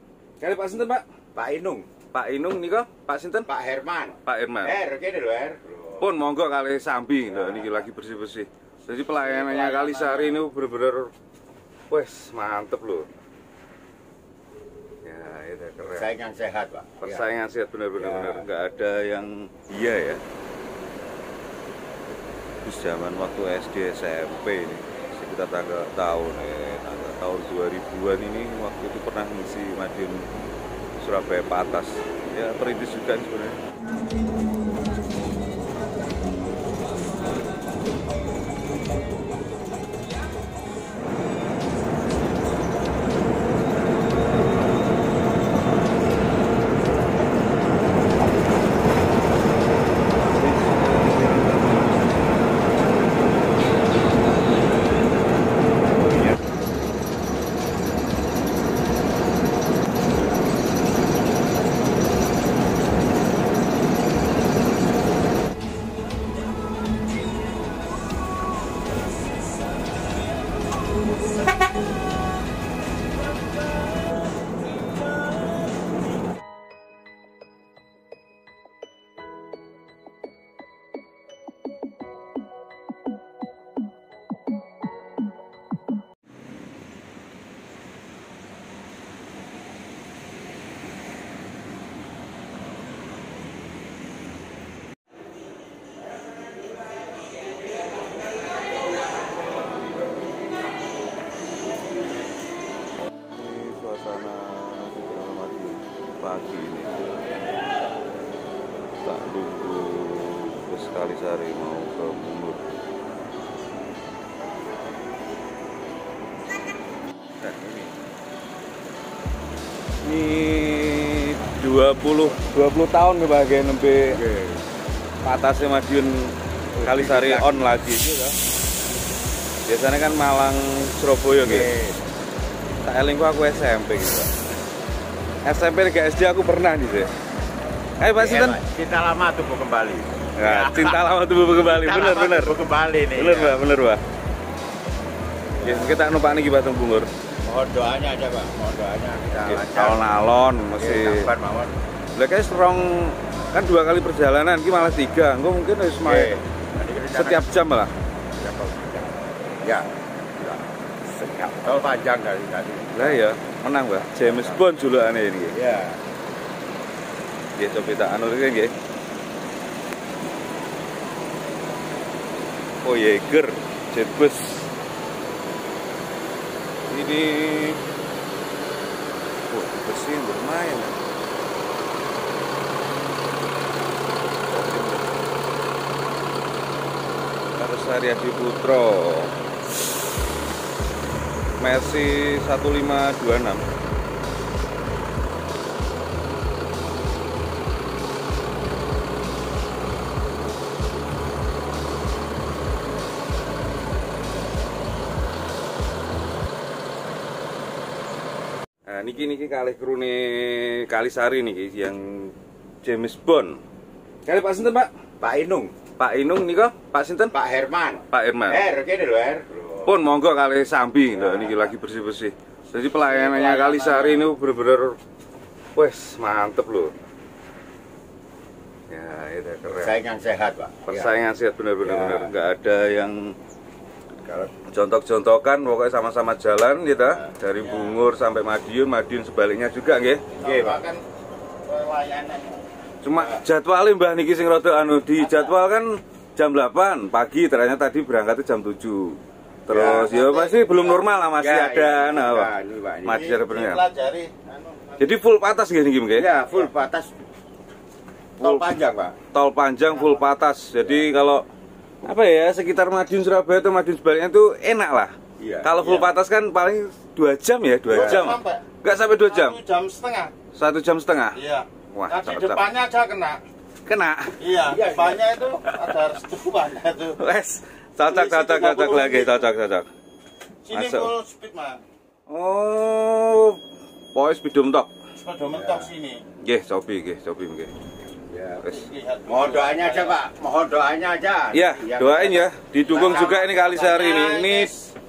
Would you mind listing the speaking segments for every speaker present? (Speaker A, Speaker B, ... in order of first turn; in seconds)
Speaker A: 0.4-1.0, 2.1-3.5, 4.2-4.7, 6.0-11.1, 11.9-13.1, 15.0-16.1, 17.0-20.2, 22.6-30.3, 31.0-33.6, 50.2-52.0, 56.0-56.4, 103.3-107.2, 109.0-112.7, 117.4-117.9, 120.0-124.2, 125.2-128.3, 129.7-131.7, 132.8-134.3, 135.4-137.1, 138.0-138.6, 140.4-142.6, 143.1-144.0, 145.6-147.1, 149.4-151.3, 152.2-156.4, 157.1-157.9, 162.9-165.6, 167.6-168.7, 172.8-174.7, 176.9-177.8, 179.5-181.0, 184.5-185.2, 187.5-189.3, 191.6-193.6, 208.9-213.6, 214.2-214.9, 216.0-217.3, 218.1-218.6, 219.8-225.0, 225.8-226.9, 228.9-229.9, 230.8-233.3, 234.6-240.2, 243.0-252.5, 253.0-253.8, 255.0-256.3, 258.4-258.7, 259.3-261.4, 262.0-269.6, 270.5-271.4, 271.9-272.6, 273.9-274.4, 277.2-279.9, 280.7-281.1, 282.3-283.6, 284.1-284.9, 286.4-287.8, 291.5-294.7
Speaker B: 1.3-1.9, 3.5-6.0, 7.3-7.8, 15.9-17.2, 18.0-18.4, 124.0-124.7, 126.8-127.7, 131.4-132.0, 138.2-141.0, 141.6-143.6, 145.6-146.0, 147.4-150.2, 150.7-151.7, 156.0-157.5, 158.4-159.1, 159.6-163.2, 164.1-164.6, 165.5-166.0, 215.2-215.7, 217.3-219.9, 221.1-221.7, 222.9-224.2, 229.8-231.1, 231.8-232.3, 234.2-234.5, 237.2-237.9, 240.4-240.8, 243.2-243.4, 249.7-253.4, 256.1-257.1, 258.4-259.2, 265.4-266.1, 267.9-268.2, 274.6-275.6, 278.7-279.1, 285.5-285.9, 288.3-288.6, 289.2-294.5
Speaker C: 9.3-10.2, 240.4-241.0, 241.7-242.5, 245.2-245.5, 253.2-255.2, 259.9-260.2, 267.9-268.7, 269.2-270.3, 271.4-273.4, 274.4-277.2, 278.1-279.3, 280.6-281.8, 285.1-286.2, 288.6-290.2, 292.9-294.8